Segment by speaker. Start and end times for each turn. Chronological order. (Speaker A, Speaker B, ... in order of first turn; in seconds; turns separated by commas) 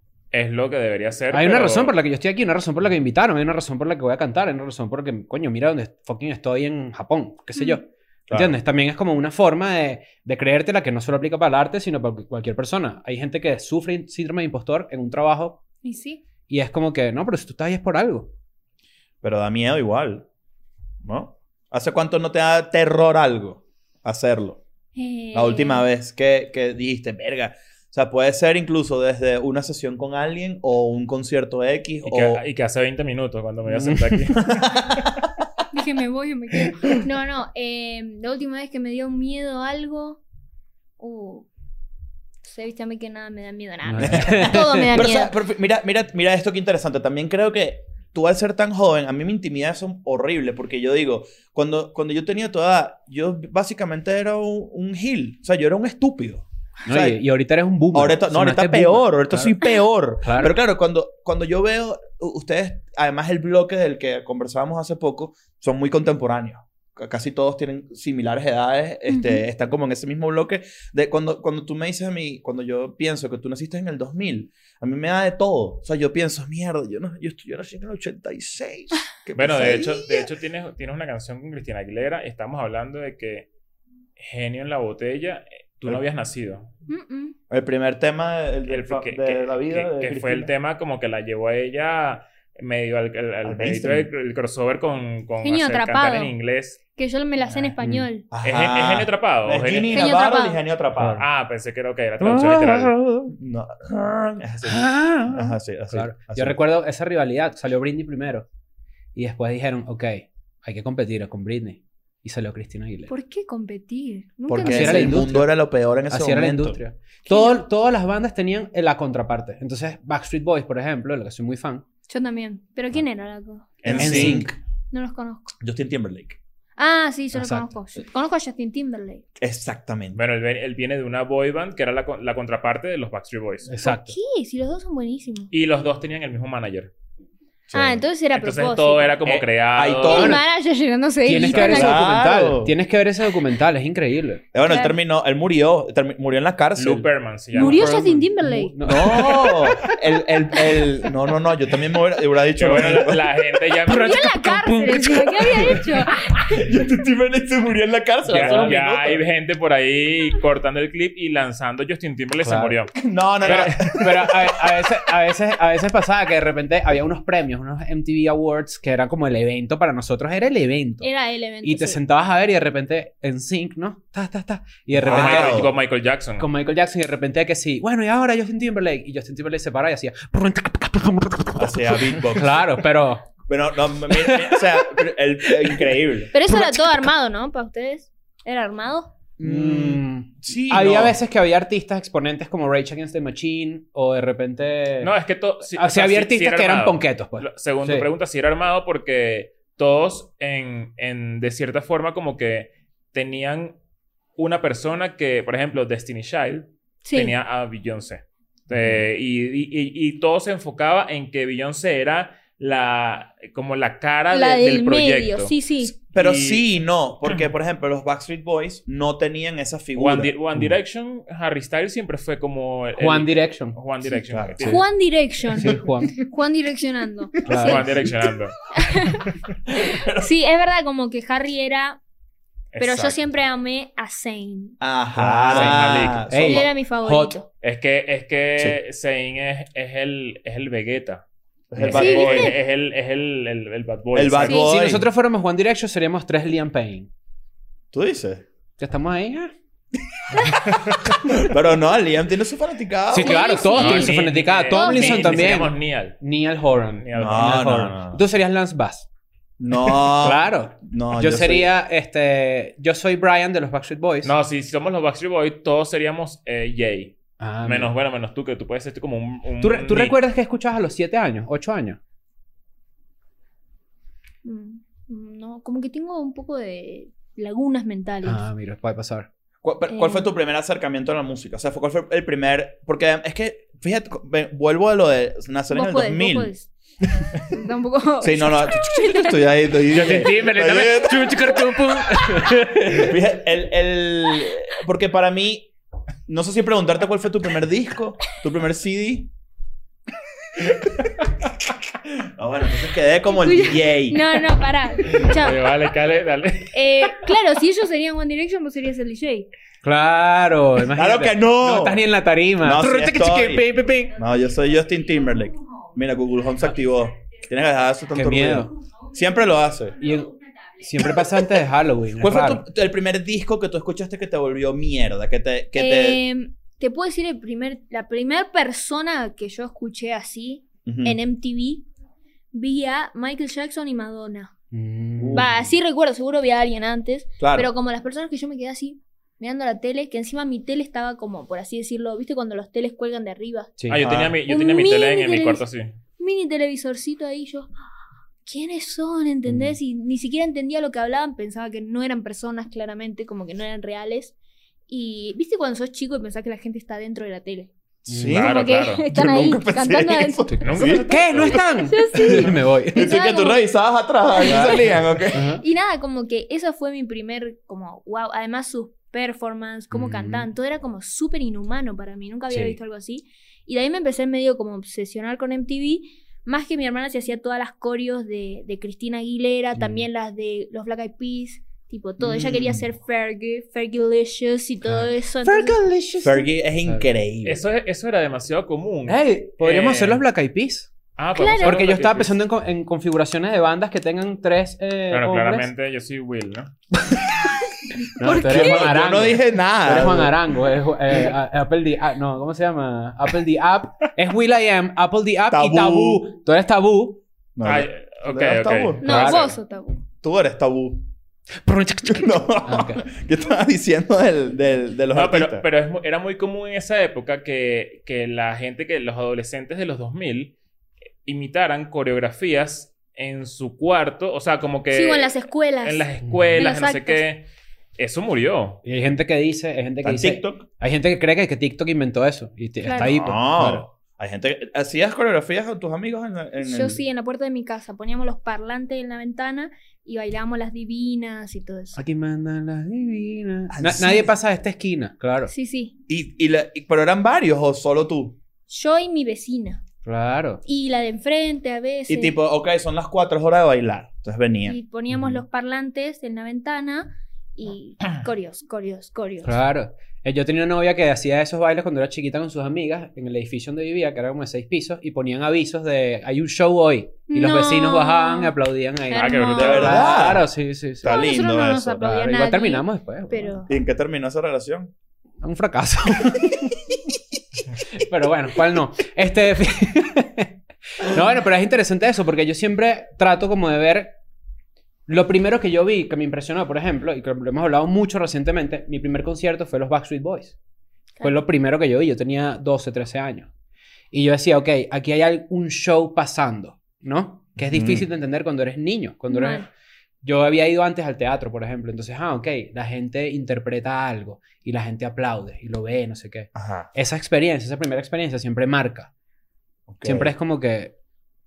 Speaker A: 0.3-2.0, Speaker B: 1.3-15.6, Speaker C: 7.5-7.8, Speaker D: 8.3-8.6, Speaker C: 15.8-16.2, Speaker B: 16.5-18.3, Speaker D: 19.2-20.2, Speaker D: 21.0-24.6, Speaker C: 24.9-25.9, Speaker D: 25.3-32.4, Speaker A: 32.0-34.7, Speaker B: 33.6-34.5, Speaker D: 34.4-35.2, Speaker C: 35.7-40.2, Speaker C: 41.0-41.5, Speaker C: 42.4-45.4, Speaker B: 43.9-45.0, Speaker D: 44.0-57.2, Speaker B: 56.9-59.6, Speaker D: 57.9-80.3, Speaker B: 60.2-60.6, Speaker C: 69.1-69.4, Speaker A: 79.4-83.5, Speaker A: 84.2-86.7, Speaker C: 86.9-87.3, Speaker D: 87.5-90.5, Speaker A: 88.7-96.8, Speaker D: 93.4-94.1, Speaker C: 95.4-96.3, Speaker C: 97.0-98.2, Speaker D: 98.3-101.2, Speaker A: 98.4-100.0, Speaker C: 99.8-100.6, Speaker B: 101.0-101.2, Speaker A: 101.1-103.0, Speaker B: 102.2-103.2, Speaker D: 103.2-106.6, Speaker B: 104.7-108.5, Speaker B: 109.1-113.1, Speaker C: 113.1-115.3, Speaker D: 114.5-116.8, Speaker B: 114.6-115.6, Speaker B: 116.1-121.8, Speaker C: 117.2-117.6, Speaker C: 122.1-123.8, Speaker A: 123.8-124.4, Speaker D: 123.8-124.5, Speaker B: 124.0-124.5, Speaker C: 124.9-125.5, Speaker D: 125.6-126.4, Speaker C: 126.8-129.2, Speaker B: 127.3-127.7, Speaker D: 129.4-130.2, Speaker A: 130.1-133.7, Speaker B: 133.7-134.2, Speaker C: 133.8-135.5, Speaker A: 135.5-136.9, Speaker D: 137.7-138.0, Speaker C: 137.7-139.2, Speaker A: 138.3-140.4, Speaker D: 139.2-140.4, Speaker C: 140.0-142.1, Speaker B: 141.2-144.4, Speaker A: 141.4-141.7, Speaker D: 141.5-142.7, Speaker D: 144.5-147.1, Speaker C: 144.6-144.9, Speaker A: 146.8-147.9, Speaker B: 147.5-149.9, Speaker C: 147.6-149.9, Speaker D: 148.8-153.3, Speaker A: 152.6-154.3, Speaker C: 153.9-156.6, Speaker B: 153.9-155.7, Speaker D: 156.4-159.2, Speaker A: 158.2-163.8, Speaker B: 158.3-158.8, Speaker B: 162.4-162.8, Speaker D: 163.0-164.9, Speaker B: 163.4-171.1, Speaker C: 171.0-172.0, Speaker B: 171.6-175.7, Speaker D: 174.9-175.7, Speaker A: 174.9-176.5, Speaker B: 176.4-183.3, Speaker D: 181.6-182.9, Speaker D: 183.4-186.3, Speaker B: 184.1-184.9, Speaker B: 185.6-185.9, Speaker C: 186.3-189.1, Speaker B: 186.5-186.8, Speaker D: 189.4-191.2, Speaker B: 189.4-195.1, Speaker A: 195.0-203.8, Speaker B: 195.7-198.1, Speaker A: 204.4-215.5, Speaker C: 207.0-207.4, Speaker D: 208.7-209.0, Speaker C: 214.3-215.9, Speaker D: 215.8-220.3, Speaker A: 216.1-216.7, Speaker A: 219.9-224.8, Speaker B: 223.0-223.8, Speaker D: 224.3-224.8, Speaker C: 224.6-227.9, Speaker B: 225.5-226.2, Speaker B: 227.4-228.0, Speaker A: 227.4-228.6, Speaker C: 228.7-229.3, Speaker D: 229.7-230.3, Speaker C: 229.8-232.0, Speaker A: 232.7-233.2, Speaker C: 232.8-234.8, Speaker D: 234.8-236.7, Speaker B: 235.2-237.4, Speaker A: 235.5-236.2, Speaker C: 236.3-237.5, Speaker A: 237.6-241.2, Speaker D: 241.7-242.6, Speaker A: 241.8-244.6, Speaker C: 241.9-242.6, Speaker D: 244.1-245.1, Speaker C: 244.4-244.7, Speaker B: 244.5-247.1, Speaker D: 247.9-248.4, Speaker B: 248.8-249.5, Speaker A: 250.5-251.2, Speaker D: 251.2-253.7, Speaker B: 253.1-259.1, Speaker C: 253.2-255.5, Speaker A: 253.7-256.2, Speaker A: 256.7-257.7, Speaker D: 257.1-258.2, Speaker D: 259.6-261.7, Speaker B: 259.8-264.3, Speaker A: 264.2-270.2, Speaker B: 267.4-267.9, Speaker B: 269.6-272.0, Speaker C: 274.4-278.4, Speaker B: 278.2-279.3, Speaker D: 279.6-286.5, Speaker C: 279.9-280.3, Speaker C: 285.7-286.7, Speaker C: 287.3-289.4, Speaker D: 288.2-291.6, Speaker B: 289.9-293.1, Speaker D: 292.9-295.7, Speaker D: 296.3-299.3, Speaker D: 302.0-304.4, Speaker C: 303.3-305.7, Speaker A: 305.1-307.2, Speaker C: 306.7-309.5, Speaker B: 309.8-314.1, Speaker D: 310.9-312.1, Speaker D: 312.6-320.0, Speaker B: 318.1-318.7, Speaker B: 319.9-322.6, Speaker D: 321.0-321.5, Speaker D: 322.2-326.2, Speaker C: 325.7-331.9, Speaker D: 330.9-331.2, Speaker C: 332.5-334.5, Speaker B: 334.7-335.5, Speaker D: 335.2-335.7, Speaker C: 335.3-343.7, Speaker D: 337.4-337.7, Speaker B: 343.8-344.2, Speaker A: 343.9-345.9, Speaker D: 344.0-344.4, Speaker C: 344.4-345.6, Speaker C: 346.2-347.7, Speaker C: 348.4-354.4, Speaker C: 354.9-357.7, Speaker D: 358.0-361.6, Speaker B: 358.1-358.4, Speaker A: 358.3-359.0, Speaker C: 358.4-363.7, Speaker B: 360.5-363.1, Speaker A: 360.6-361.6, Speaker D: 362.1-365.5, Speaker C: 364.3-385.8, Speaker B: 364.4-365.6, Speaker B: 369.9-370.5, Speaker B: 372.5-372.8, Speaker B: 379.8-380.1, Speaker D: 382.2-382.8, Speaker B: 384.9-387.1, Speaker D: 386.2-387.6, Speaker A: 387.4-390.2, Speaker B: 389.1-390.9, Speaker A: 391.2-392.4, Speaker C: 391.4-391.9, Speaker B: 391.6-395.7, Speaker A: 395.1-396.7, Speaker B: 398.2-407.2, Speaker C: 398.2-398.9, Speaker D: 398.2-400.7, Speaker D: 405.5-406.3, Speaker D: 407.6-409.4, Speaker A: 407.6-409.6, Speaker C: 409.0-410.0, Speaker B: 409.0-409.4, Speaker D: 410.2-411.1, Speaker B: 411.6-413.0, Speaker D: 412.1-415.6, Speaker A: 415.1-420.5, Speaker A: 421.2-428.8, Speaker C: 424.9-427.2, Speaker B: 426.2-426.7, Speaker B: 428.9-433.9, Speaker D: 430.0-430.6, Speaker C: 432.8-433.3, Speaker D: 433.1-437.0, Speaker C: 436.6-442.0, Speaker B: 441.9-445.5, Speaker D: 443.7-444.3, Speaker C: 445.5-445.9, Speaker D: 446.1-448.4, Speaker C: 448.7-449.8, Speaker B: 450.1-450.6, Speaker C: 450.6-452.4, Speaker D: 452.1-454.8, Speaker C: 454.6-459.6, Speaker B: 455.1-455.4, Speaker B: 459.4-471.3, Speaker C: 467.3-468.6, Speaker C: 469.1-470.3, Speaker A: 469.1-470.1, Speaker D: 469.6-472.0, Speaker C: 471.0-473.7, Speaker B: 471.9-473.6, Speaker D: 473.7-474.9, Speaker B: 475.4-477.0, Speaker B: 477.9-484.2, Speaker B: 485.1-490.6, Speaker B: 491.2-493.5, Speaker B: 494.1-499.7, Speaker D: 497.6-498.1, Speaker C: 499.3-499.7, Speaker B: 500.2-509.1, Speaker D: 506.6-506.9, Speaker D: 509.9-510.3, Speaker B: 510.0-510.9